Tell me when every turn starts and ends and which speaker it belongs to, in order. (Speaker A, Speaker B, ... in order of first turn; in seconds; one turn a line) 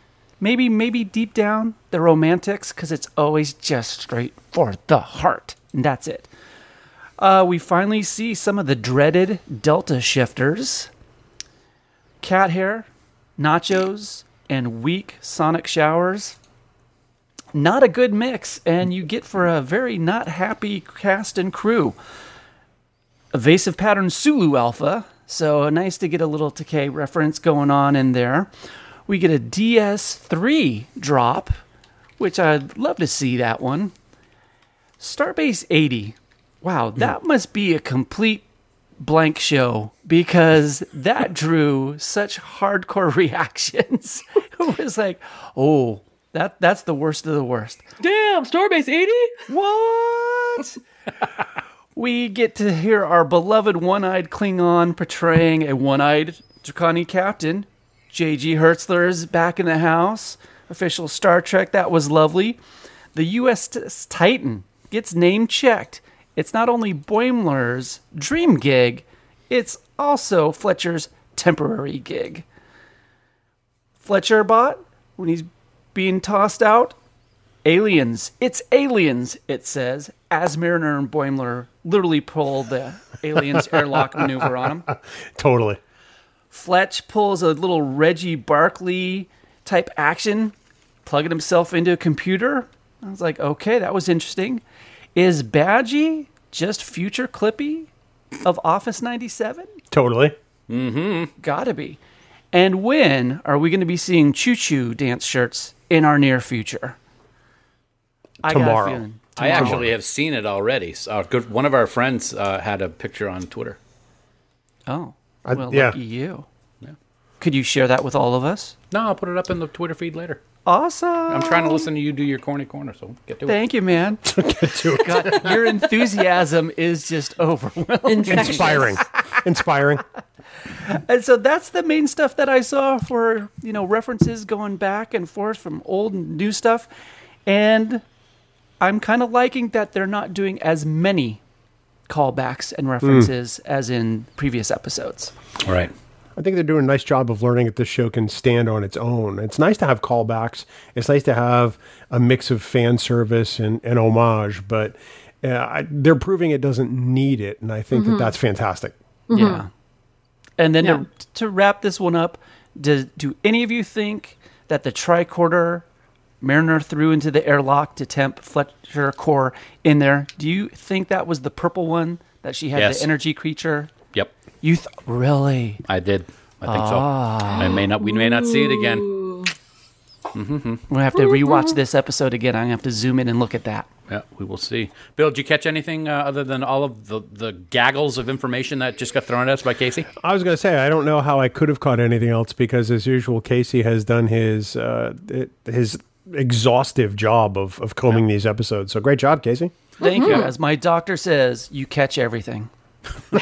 Speaker A: 0.4-6.3
Speaker A: 7.2-10.9
Speaker A: 12.2-16.4
Speaker A: 17.5-21.9
Speaker A: 23.3-28.5
Speaker A: 29.1-31.6
Speaker A: 32.2-33.9
Speaker A: 35.0-38.4
Speaker A: 39.0-47.8
Speaker B: 48.0-49.4
Speaker A: 49.5-50.8
Speaker A: 52.0-62.6
Speaker A: 63.1-72.5
Speaker A: 74.0-77.0
Speaker A: 77.6-84.9
Speaker C: 84.9-85.8
Speaker A: 86.5-94.6
Speaker A: 95.2-97.9
Speaker A: 98.4-99.7
Speaker C: 99.9-100.3
Speaker D: 100.7-101.3
Speaker A: 101.4-102.0
Speaker A: 102.5-107.0
Speaker C: 108.4-109.9
Speaker A: 108.4-109.8
Speaker D: 109.4-113.8
Speaker A: 114.9-116.5
Speaker C: 115.5-116.0
Speaker A: 117.4-118.7
Speaker D: 118.9-120.4
Speaker A: 120.7-121.9
Speaker D: 121.3-123.6
Speaker A: 123.5-124.4
Speaker C: 124.2-125.7
Speaker A: 124.9-129.0
Speaker B: 128.1-129.0
Speaker C: 128.3-130.0
Speaker A: 130.8-136.9
Speaker A: 137.4-138.0
Speaker A: 138.8-141.4
Speaker A: 142.1-145.3
Speaker C: 143.0-143.3
Speaker D: 145.6-145.9
Speaker C: 146.4-158.9
Speaker B: 157.9-158.3
Speaker B: 159.3-159.6
Speaker A: 159.3-159.7
Speaker A: 160.6-165.8
Speaker A: 166.4-173.9
Speaker D: 172.8-173.1
Speaker A: 174.6-175.8
Speaker D: 175.9-179.1
Speaker A: 176.7-177.7
Speaker B: 177.6-179.5
Speaker D: 180.3-180.8
Speaker A: 180.9-183.9
Speaker B: 181.2-181.7
Speaker D: 184.1-190.1
Speaker C: 190.2-199.7
Speaker A: 200.0-202.7
Speaker B: 200.0-200.5